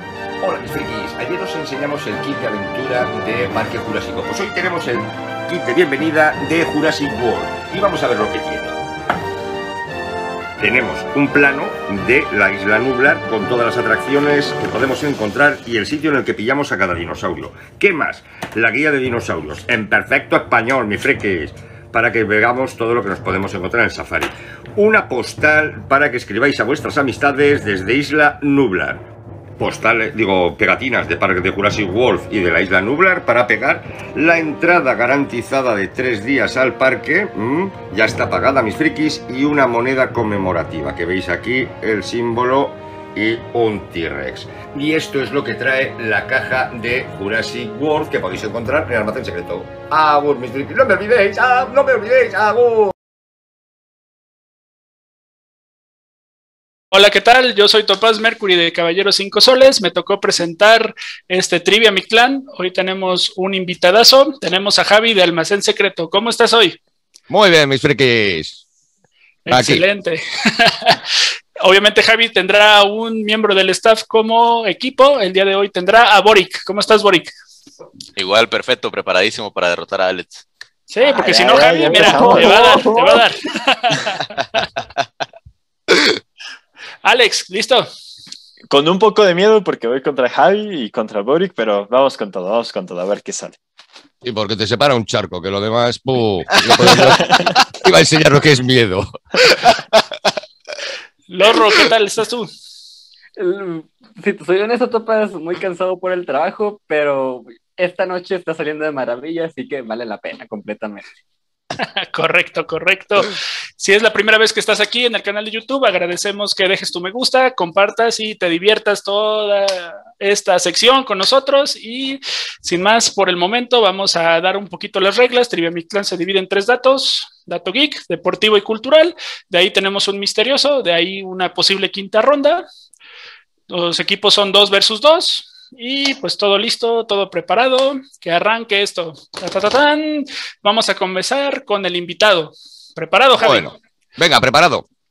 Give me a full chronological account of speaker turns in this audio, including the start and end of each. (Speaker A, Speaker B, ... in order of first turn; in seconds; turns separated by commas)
Speaker A: 0.4-8.8, Speaker A: 10.6-29.0, Speaker A: 29.6-53.0, Speaker B: 56.9-66.8, Speaker A: 67.3-68.6, Speaker B: 69.5-71.0, Speaker A: 69.5-69.8, Speaker B: 71.6-77.3, Speaker C: 78.2-80.4, Speaker B: 80.9-84.7, Speaker D: 81.0-83.2, Speaker E: 81.6-83.0, Speaker B: 87.0-87.9, Speaker D: 88.7-93.6, Speaker A: 94.2-99.8, Speaker C: 96.6-97.0, Speaker D: 96.9-97.6, Speaker B: 101.3-102.5, Speaker E: 103.4-111.1, Speaker B: 111.8-132.7, Speaker B: 133.7-143.7, Speaker A: 143.4-144.9